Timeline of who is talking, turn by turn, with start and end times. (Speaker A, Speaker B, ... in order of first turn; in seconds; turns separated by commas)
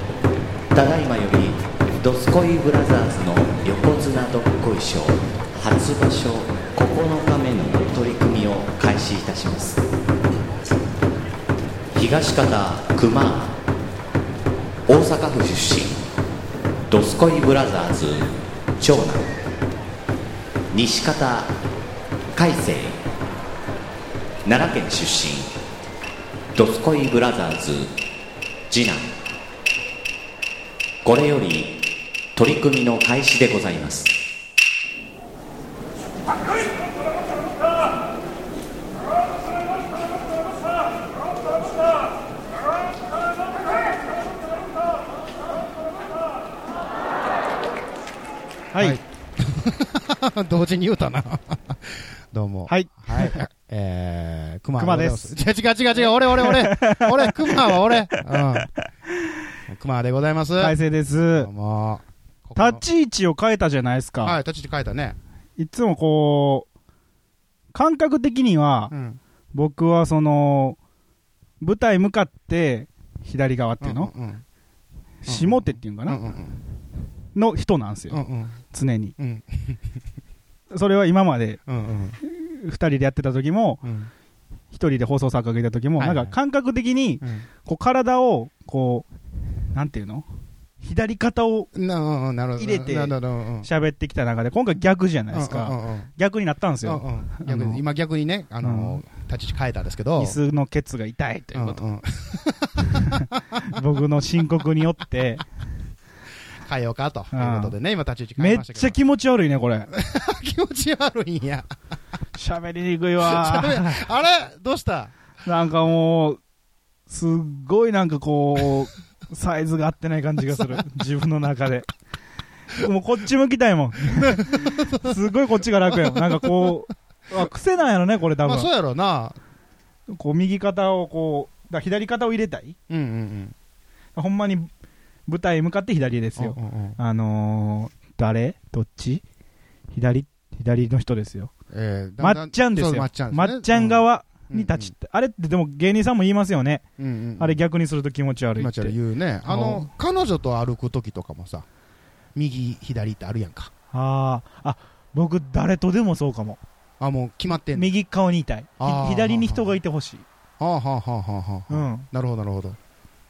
Speaker A: 0.7-9.8, Speaker A: 11.9-13.6, Speaker A: 14.9-16.0, Speaker A: 16.9-19.3, Speaker A: 20.7-21.5, Speaker A: 22.3-23.0, Speaker A: 24.4-25.5, Speaker A: 26.5-27.9, Speaker A: 28.7-29.1, Speaker A: 31.0-31.8, Speaker A: 32.4-34.1, Speaker B: 48.7-49.0, Speaker C: 48.8-58.7, Speaker B: 52.7-53.5, Speaker B: 54.8-55.3, Speaker B: 56.0-58.8, Speaker C: 59.7-60.8, Speaker B: 60.6-61.5, Speaker C: 61.3-62.8, Speaker B: 62.5-64.4, Speaker C: 64.2-65.2, Speaker B: 65.6-66.7, Speaker B: 67.7-68.9, Speaker C: 68.9-69.2, Speaker B: 69.5-70.8, Speaker B: 71.6-74.1, Speaker C: 73.8-74.4, Speaker B: 75.2-76.2, Speaker C: 75.2-76.6, Speaker B: 77.3-79.2, Speaker C: 78.1-78.6, Speaker C: 79.2-80.0, Speaker B: 80.7-81.6, Speaker C: 81.7-82.2, Speaker B: 82.2-83.8, Speaker C: 83.8-84.1, Speaker B: 84.7-89.1, Speaker C: 86.0-86.3, Speaker C: 87.2-87.5, Speaker B: 89.7-90.2, Speaker B: 90.8-91.7, Speaker C: 91.7-93.7, Speaker B: 92.6-97.8, Speaker C: 95.3-96.1, Speaker C: 96.8-100.4, Speaker B: 98.6-99.0, Speaker B: 100.2-101.8, Speaker C: 101.5-103.8, Speaker B: 102.9-105.5, Speaker C: 106.6-109.0, Speaker B: 107.3-107.8, Speaker B: 108.4-109.9, Speaker C: 109.9-111.7, Speaker B: 112.3-114.0, Speaker C: 113.2-115.1, Speaker B: 115.4-116.4, Speaker B: 117.1-121.9, Speaker C: 120.5-120.8, Speaker B: 122.7-128.7, Speaker C: 124.0-126.8, Speaker C: 128.4-129.4, Speaker B: 130.1-132.8, Speaker C: 132.9-133.5, Speaker B: 134.2-134.7, Speaker B: 135.3-139.2, Speaker C: 136.4-137.0, Speaker B: 139.9-141.5, Speaker C: 141.7-144.9, Speaker B: 142.2-146.8, Speaker C: 147.0-147.6, Speaker B: 147.4-148.9, Speaker C: 148.6-151.7, Speaker B: 149.4-149.9, Speaker C: 152.3-153.7, Speaker B: 153.9-156.6, Speaker C: 157.0-157.9, Speaker B: 157.7-160.2, Speaker C: 158.8-159.8, Speaker C: 160.6-162.8, Speaker B: 161.7-162.1